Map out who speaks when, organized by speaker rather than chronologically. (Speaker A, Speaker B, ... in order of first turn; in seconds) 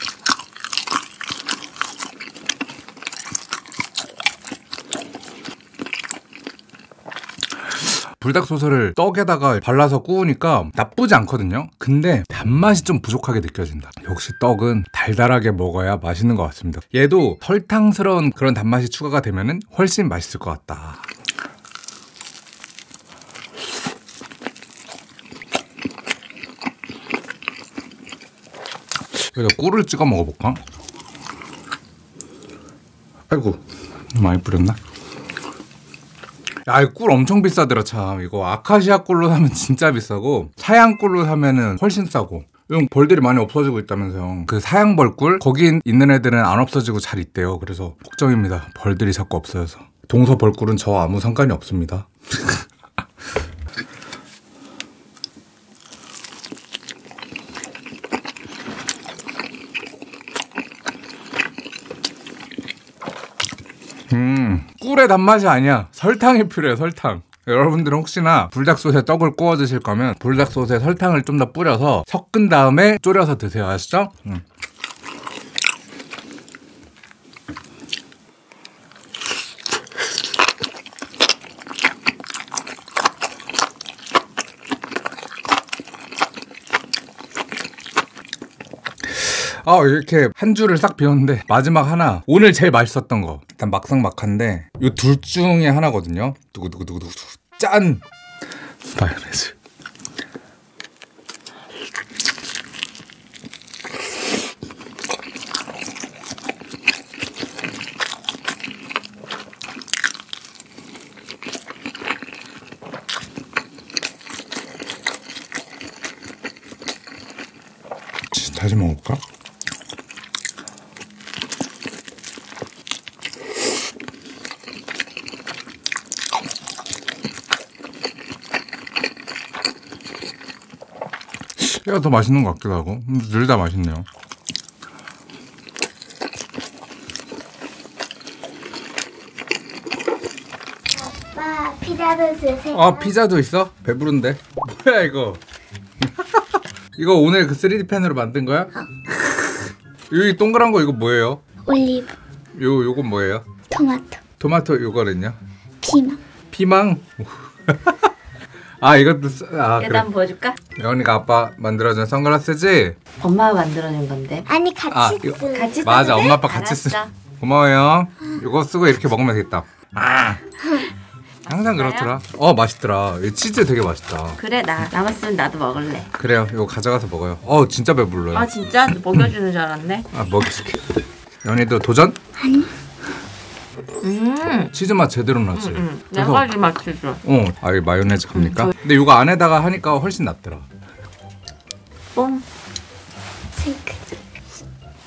Speaker A: 7.8-21.1, 29.3-30.6, 33.3-33.6, 34.1-34.8, 36.7-52.6, 64.1-74.4, 89.1-98.0, 98.9-99.5, 118.3-119.2, 131.6-134.1, 142.7-145.4, 146.0-146.4, 147.0-149.6, 150.1-151.4, 152.6-153.4, 154.4-155.4, 156.5-158.0, 158.8-160.1, 160.8-163.0, 164.9-170.6, 171.5-174.4, 176.2-178.5, 180.1-180.8, 181.4-182.2, 184.7-186.5, 187.2-190.7
Speaker B: 140.9-143.1, 151.7-152.1, 153.7-154.2, 155.8-156.2, 164.5-166.2, 182.4-182.7, 193.6-194.0
Speaker C: 159.8-160.6, 163.2-164.5, 165.5-167.1, 171.5-172.1, 174.4-176.1, 178.3-180.1, 184.0-184.7, 185.5-187.2, 188.3-188.7, 192.2-192.4